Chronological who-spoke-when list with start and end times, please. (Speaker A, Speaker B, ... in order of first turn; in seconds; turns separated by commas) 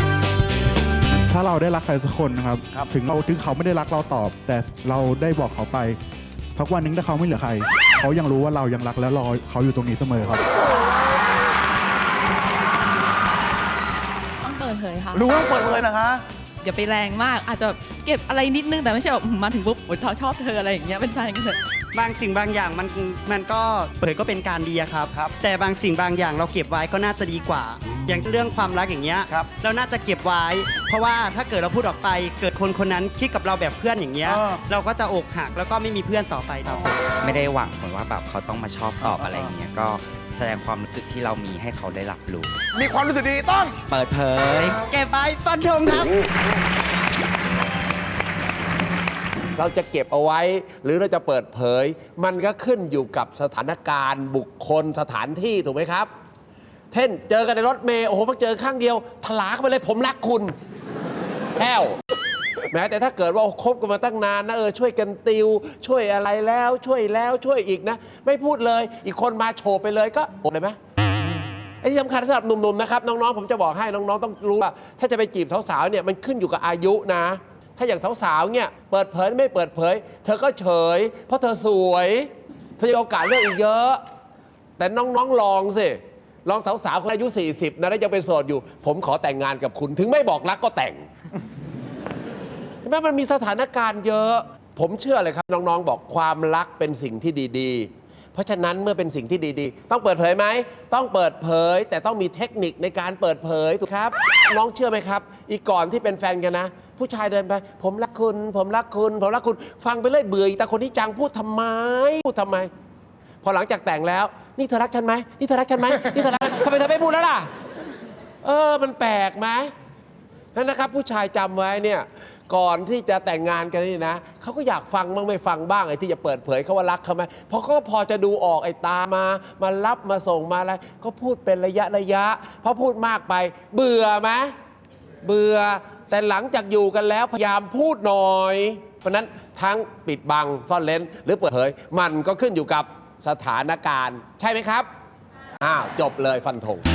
Speaker A: 1.3-6.0, Speaker A: 6.5-10.4, Speaker B: 14.4-15.4, Speaker C: 15.1-16.2, Speaker B: 16.6-21.6, Speaker D: 21.9-36.7, Speaker C: 34.2-34.6, Speaker E: 36.7-42.5, Speaker C: 39.0-39.5, Speaker C: 42.7-43.8, Speaker E: 43.9-44.8, Speaker D: 44.9-46.1, Speaker F: 49.5-56.1, Speaker F: 56.9-60.5, Speaker F: 61.6-62.0, Speaker F: 62.7-70.8, Speaker F: 71.8-84.0, Speaker F: 84.8-91.1, Speaker F: 92.8-112.7, Speaker F: 113.4-117.5, Speaker F: 118.4-119.7, Speaker F: 120.5-134.5, Speaker F: 135.2-144.9, Speaker F: 145.6-146.8